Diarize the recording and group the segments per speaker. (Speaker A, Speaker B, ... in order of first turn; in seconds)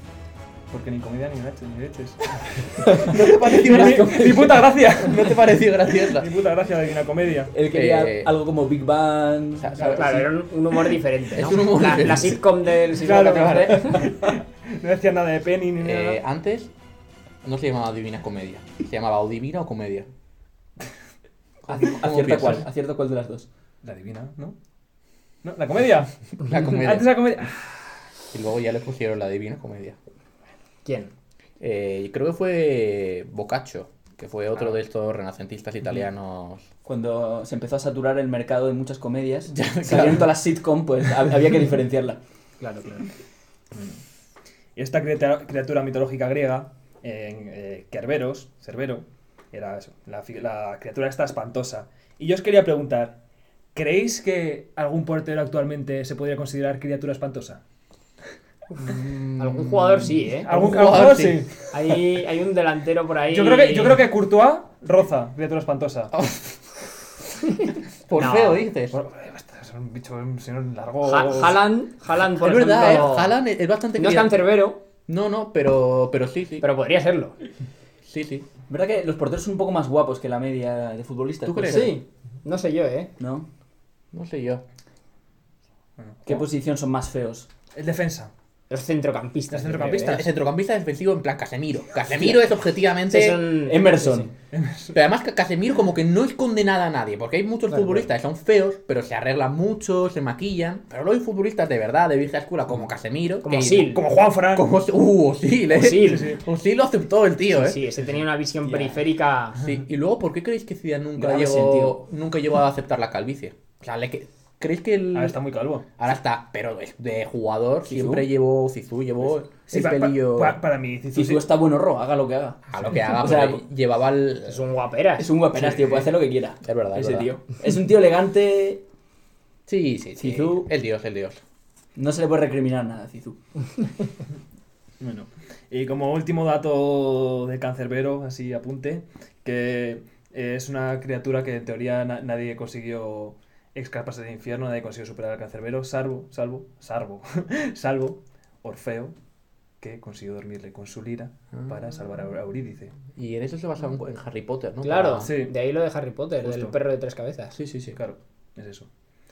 Speaker A: 0.7-7.5, 9.8-10.2, 12.9-16.2, 23.8-24.6, 25.4-27.7, 43.8-44.0, 44.8-53.2, 53.7-57.6, 60.5-62.0, 63.3-66.1, 68.9-71.6, 86.0-86.3, 87.7-88.3, 89.5-90.3, 94.5-95.0, 103.6-104.7, 106.0-106.4, 115.1-115.9, 119.7-121.5, 125.5-126.1, 135.0-149.1, 149.8-152.9, 155.2-155.5, 156.4-156.8, 157.9-158.9
Speaker B: 2.9-6.3, 7.7-8.3, 9.6-10.3, 11.3-12.4, 15.8-16.7, 17.4-20.1, 21.6-22.7, 26.4-27.2, 28.3-30.0, 31.6-36.7, 39.5-40.3, 58.8-61.5, 66.1-66.5, 68.1-69.0, 72.4-74.4, 75.1-76.7, 78.0-78.5, 81.5-81.9, 84.1-84.6, 90.0-93.4, 94.9-107.8, 109.6-115.4, 116.0-120.6, 122.7-124.6, 126.6-127.3, 129.7-131.4, 151.5-151.8, 153.2-155.3, 157.6-158.0
Speaker C: 3.7-4.4, 7.5-9.9, 21.7-23.5, 36.9-42.2, 78.7-82.0, 83.2-83.5, 86.3-87.5, 93.7-94.3, 111.2-112.0, 117.9-118.3, 121.1-123.6, 125.2-128.8, 130.2-130.7, 132.0-133.4
Speaker D: 10.0-14.1, 30.8-31.1, 42.6-43.1, 58.8-60.5, 61.7-64.0, 68.2-68.7, 71.0-73.3, 74.0-74.8, 76.6-77.3, 81.6-83.1, 88.7-90.2, 93.1-94.3, 97.7-98.1, 103.4-104.0, 105.7-106.4, 107.5-109.6, 124.5-125.3, 154.8-157.6